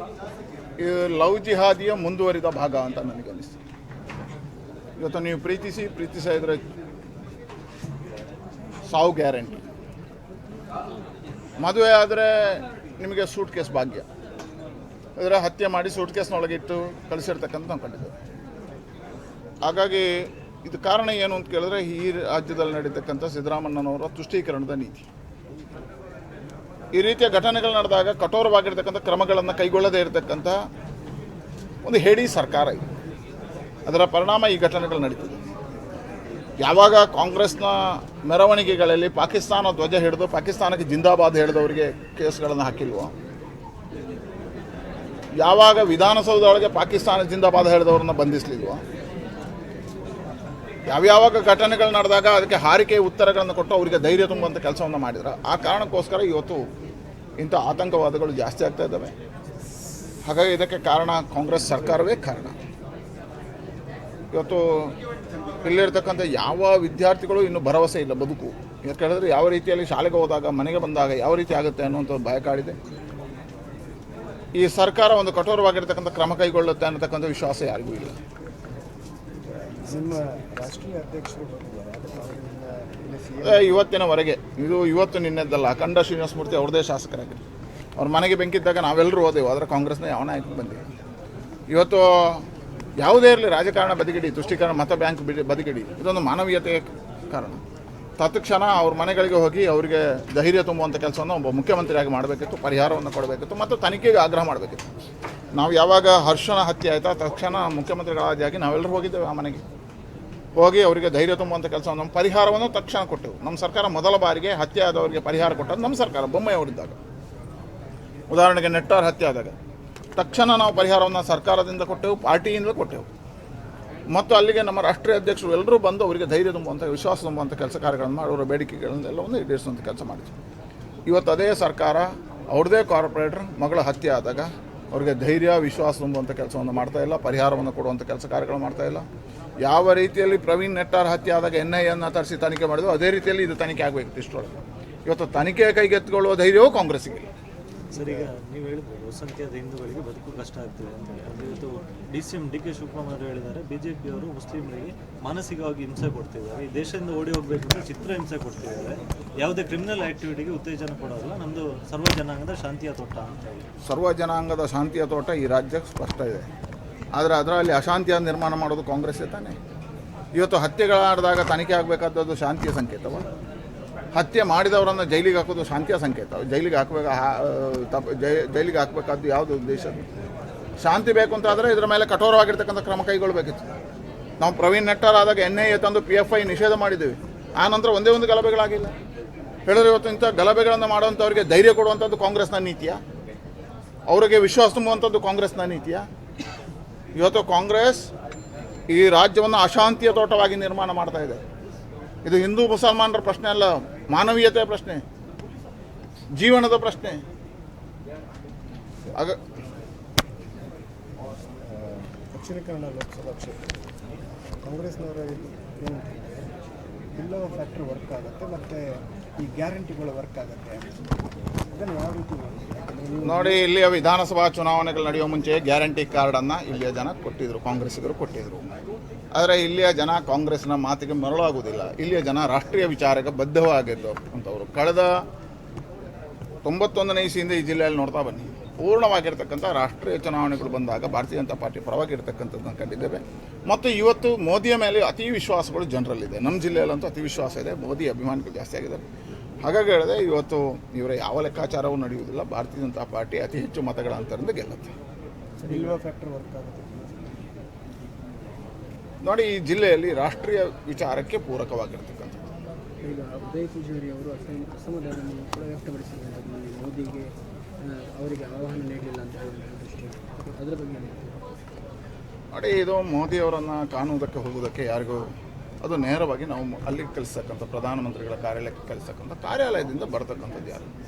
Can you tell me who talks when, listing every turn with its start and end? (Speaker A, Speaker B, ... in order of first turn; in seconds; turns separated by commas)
Speaker A: 0.8-3.6, Speaker A: 5.0-6.6, Speaker A: 8.9-9.6, Speaker A: 11.6-14.1, Speaker A: 15.2-18.1, Speaker A: 19.6-25.1, Speaker A: 26.9-30.6, Speaker A: 31.8-32.8, Speaker A: 33.9-35.4, Speaker A: 36.6-43.1, Speaker A: 45.4-48.8, Speaker A: 50.9-56.6, Speaker A: 57.4-59.1, Speaker A: 60.2-62.6, Speaker A: 64.3-64.9, Speaker A: 65.6-72.8, Speaker A: 74.5-78.2, Speaker B: 79.5-83.8, Speaker A: 83.4-87.4, Speaker A: 88.0-90.8, Speaker A: 91.7-92.4, Speaker A: 93.0-97.6, Speaker A: 98.2-104.8, Speaker A: 105.5-109.6, Speaker A: 110.6-117.0, Speaker A: 118.3-119.5, Speaker A: 120.2-123.0, Speaker A: 124.1-130.3, Speaker A: 131.1-139.1, Speaker A: 139.6-144.5, Speaker A: 145.1-147.3, Speaker C: 147.9-163.6, Speaker A: 163.8-166.5, Speaker A: 167.1-169.6, Speaker A: 170.3-173.3, Speaker A: 174.2-180.1, Speaker A: 180.8-183.6, Speaker A: 184.4-188.9, Speaker A: 189.7-193.0, Speaker A: 194.1-196.0, Speaker A: 197.2-198.1, Speaker A: 198.9-201.4, Speaker A: 202.2-205.0, Speaker A: 206.3-207.2, Speaker A: 209.1-209.4, Speaker B: 211.7-213.7, Speaker B: 214.6-216.5, Speaker B: 217.2-218.8, Speaker B: 219.4-220.9, Speaker B: 221.7-223.6, Speaker A: 223.2-228.7, Speaker A: 229.3-235.2, Speaker A: 236.6-249.0, Speaker A: 249.6-254.9, Speaker B: 255.6-257.3, Speaker A: 259.2-262.4, Speaker D: 263.0-271.4, Speaker A: 272.5-280.9